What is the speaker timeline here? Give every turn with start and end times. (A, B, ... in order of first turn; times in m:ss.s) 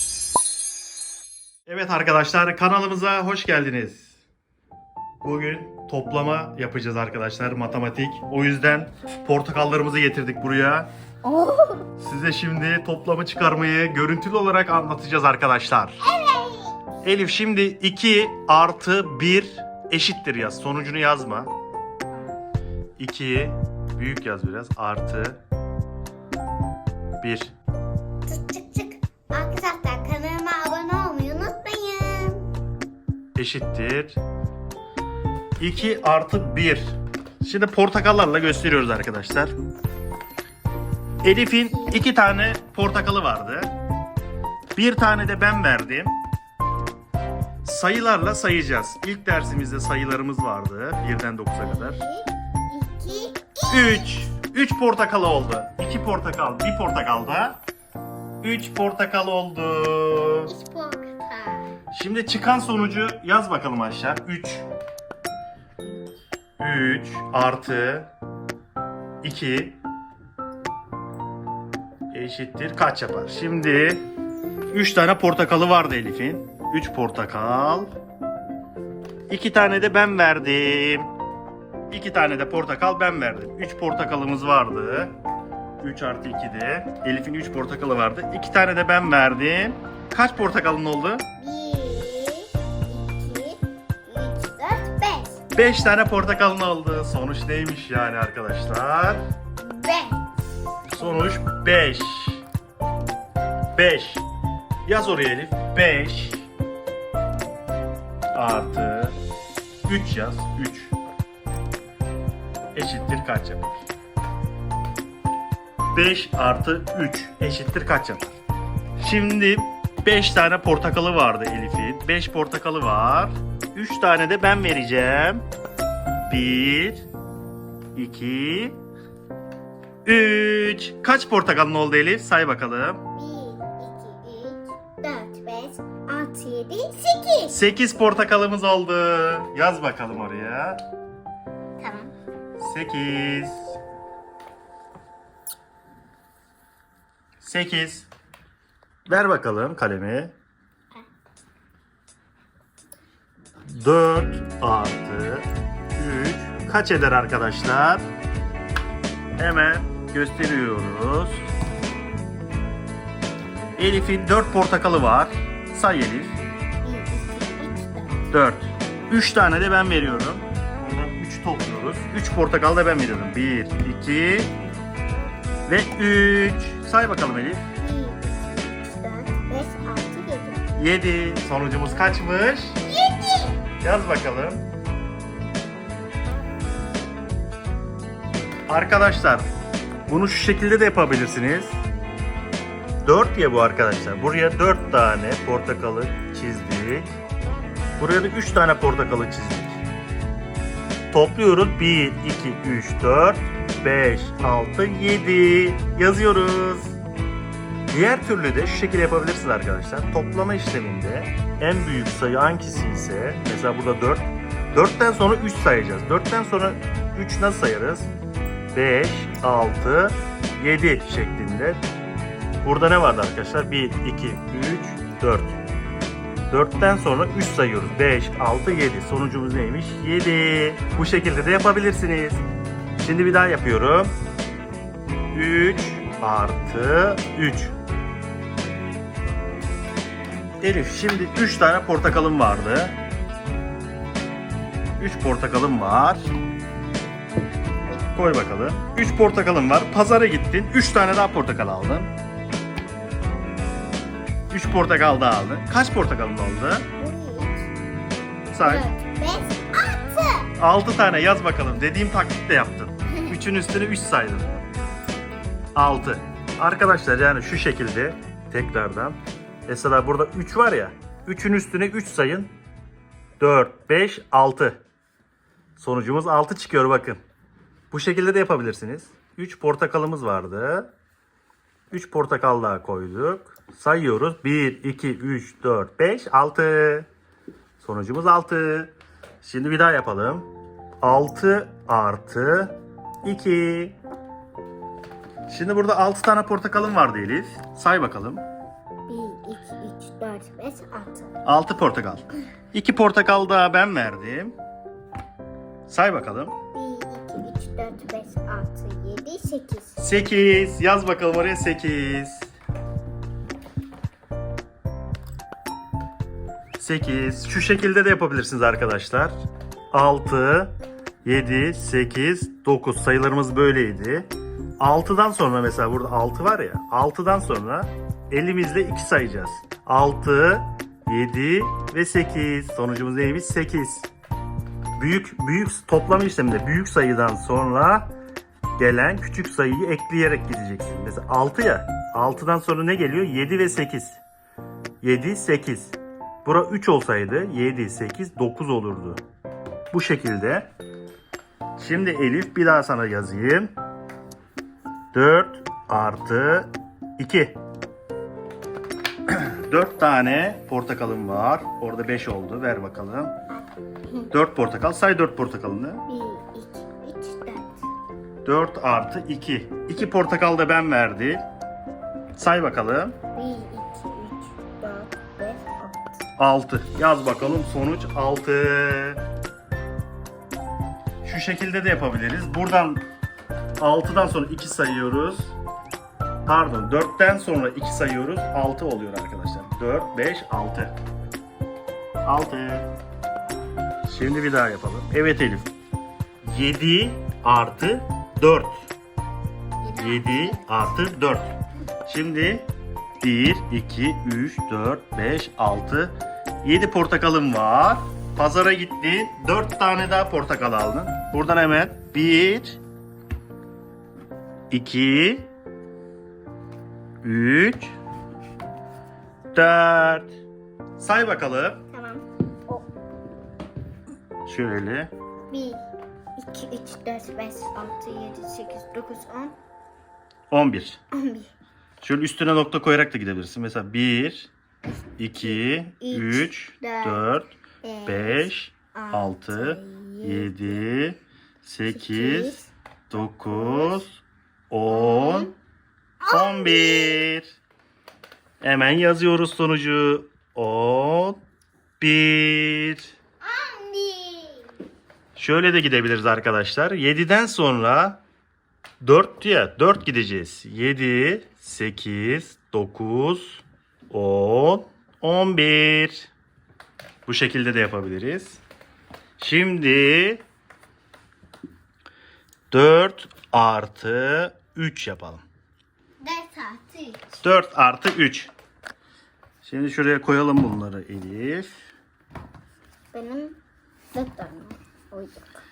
0:01.6-0:04.1 A
0:05.2-0:10.9 A
0:11.2-0:11.9 B
0:12.0-0:16.0 A
0:16.0-0:16.8 B
0:17.0-0:21.5 A
0:23.0-0:25.4 A
0:27.2-0:27.5 A
0:28.2-0:32.5 B
0:33.4-0:34.2 A
0:35.6-0:39.5 A
0:41.2-0:43.7 A
0:41.7-0:42.0 B
0:44.8-0:46.2 A
0:47.6-0:52.0 A
0:51.6-0:54.2 B
0:53.7-0:57.6 A
0:58.4-1:00.5 A
1:00.5-1:01.7 B
1:01.9-1:04.7 A
1:06.6-1:08.1 A
1:09.2-1:09.8 A
1:12.1-1:14.0 A
1:14.7-1:17.9 A
1:19.3-1:21.1 A
1:21.9-1:25.1 A
1:25.8-1:31.2 A
1:31.4-1:35.4 B
1:35.5-1:39.2 A
1:39.6-1:40.3 B
1:41.0-1:42.4 A
1:41.0-1:41.2 B
1:43.7-1:44.2 A
1:44.8-1:46.5 A
1:48.3-1:49.2 A
1:49.8-1:50.9 A
1:52.7-1:53.8 A
1:55.9-1:58.4 A
1:59.0-2:05.4 A
2:06.3-2:07.1 A
2:07.9-2:08.8 A
2:10.0-2:13.0 A
2:13.1-2:17.6 B
2:17.5-2:20.8 A
2:21.8-2:22.1 B
2:22.6-2:23.7 A
2:27.4-2:28.1 A
2:29.1-2:30.3 A
2:33.7-2:38.0 A
2:39.4-2:41.5 A
2:43.8-2:46.4 A
2:46.8-2:48.2 B
2:48.3-2:54.5 A
2:55.6-2:57.6 A
2:57.8-3:00.6 B
3:00.8-3:02.8 A
3:02.8-3:03.6 B
3:03.8-3:04.6 A
3:08.7-3:09.5 A
3:10.1-3:11.8 A
3:13.0-3:17.2 A
3:18.0-3:19.8 A
3:21.1-3:27.0 A
3:27.9-3:38.1 A
3:38.7-3:41.8 A
3:42.6-3:45.6 A
3:46.5-3:52.4 A
3:53.0-3:54.1 A
3:55.3-3:57.7 A
4:00.6-4:03.0 A
4:05.0-4:06.3 A
4:08.1-4:12.1 A
4:14.5-4:16.9 A
4:17.0-4:17.7 B
4:18.5-4:18.9 A
4:18.6-4:20.5 B
4:20.6-4:24.5 A
4:25.7-4:32.5 A
4:33.4-4:34.8 A
4:35.8-4:37.2 A
4:37.9-4:40.9 A
4:41.9-4:47.1 A
4:47.8-4:50.5 A
4:51.0-4:54.0 A
4:55.5-4:58.4 A
4:59.1-5:01.3 B
5:01.4-5:04.5 A
5:05.9-5:06.5 A
5:06.7-5:10.0 B
5:10.0-5:12.5 A
5:16.8-5:19.3 A
5:19.9-5:34.1 A
5:35.0-5:38.1 A
5:38.8-5:44.2 A
5:45.0-5:49.2 A
5:49.9-5:50.7 A
5:51.8-5:53.7 A
5:55.1-5:57.6 A
5:59.3-6:03.3 A
6:03.5-6:04.3 B
6:04.3-6:06.0 A
6:06.1-6:07.8 B
6:08.4-6:11.4 A
6:12.4-6:13.2 A
6:13.3-6:16.2 B
6:16.4-6:19.2 A
6:21.2-6:23.0 A
6:23.8-6:25.5 A
6:26.4-6:30.9 A
6:32.2-6:32.9 A
6:34.0-6:35.7 A
6:36.4-6:38.8 A
6:39.8-6:40.9 B
6:40.0-6:41.5 A
6:42.0-6:42.6 A
6:43.2-6:52.8 A
6:54.7-6:55.5 A
6:57.2-6:58.0 A
6:59.5-7:00.3 A
7:01.0-7:01.8 A
7:01.9-7:02.8 B
7:04.4-7:05.1 A
7:05.5-7:05.8 B
7:06.4-7:09.6 B
7:10.5-7:11.0 A
7:11.1-7:11.5 B
7:12.0-7:14.5 A
7:15.2-7:17.5 A
7:15.5-7:17.2 B
7:17.8-7:20.8 B
7:18.0-7:22.6 A
7:21.9-7:22.7 B
7:23.1-7:25.5 A
7:23.4-7:24.0 B
7:24.9-7:25.5 B
7:26.2-7:27.2 B
7:26.3-7:27.4 A
7:28.6-7:31.4 A
7:32.0-7:33.1 A
7:33.4-7:34.6 B
7:35.4-7:38.2 A
7:39.0-7:46.3 A
7:47.2-7:48.6 A
7:49.4-7:50.4 A
7:52.7-7:55.4 A
7:56.2-7:57.4 B
7:57.4-7:58.5 A
7:59.6-8:01.7 A
8:03.1-8:03.6 B
8:04.1-8:05.6 B